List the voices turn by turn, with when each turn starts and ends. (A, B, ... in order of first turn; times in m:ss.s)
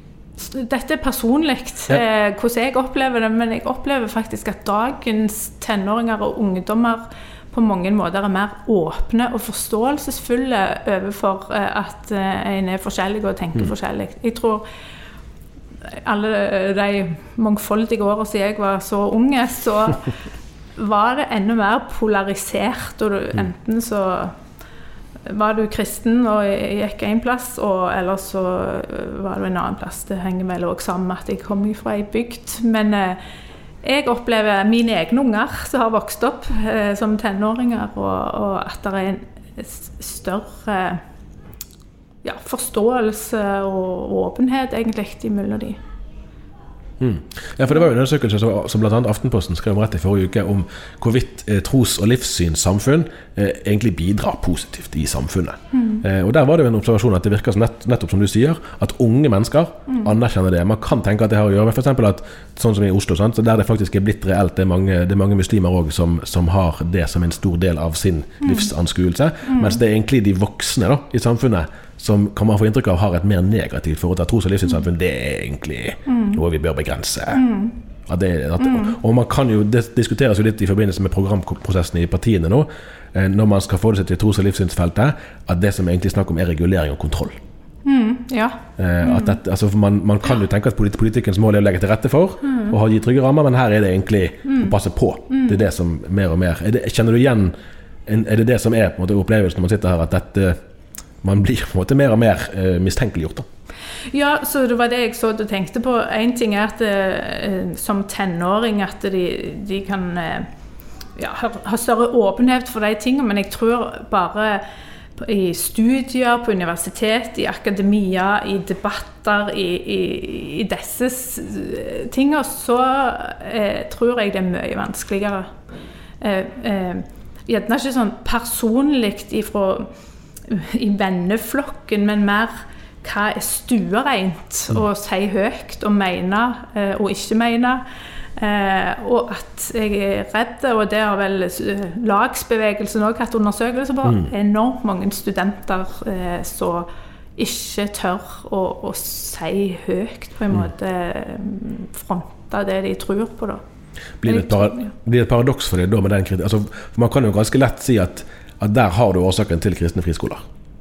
0:00.4-0:14.6 A
0:15.9-0:20.1 A
0:20.8-0:24.3 A
0:25.2-0:33.2 A
0:33.8-0:41.0 A
0:42.2-0:45.8 A
0:47.0-1:17.4 B
0:55.7-0:56.0 A
1:08.4-1:08.7 A
1:09.5-1:09.8 A
1:16.1-1:16.4 A
1:17.3-1:17.8 A
1:18.1-1:27.4 B
1:18.6-1:19.0 A
1:27.8-1:29.4 A
1:28.8-1:37.5 B
1:32.5-1:32.7 A
1:34.5-1:34.7 A
1:35.3-1:35.6 A
1:38.1-1:40.6 B
1:41.2-1:43.4 B
1:44.1-1:50.5 A
1:51.2-1:54.6 A
1:55.2-2:05.5 A
2:06.2-2:09.9 A
2:10.5-2:17.8 A
2:18.4-2:33.6 A
2:24.0-2:24.3 B
2:34.2-2:40.4 B
2:34.2-2:34.9 A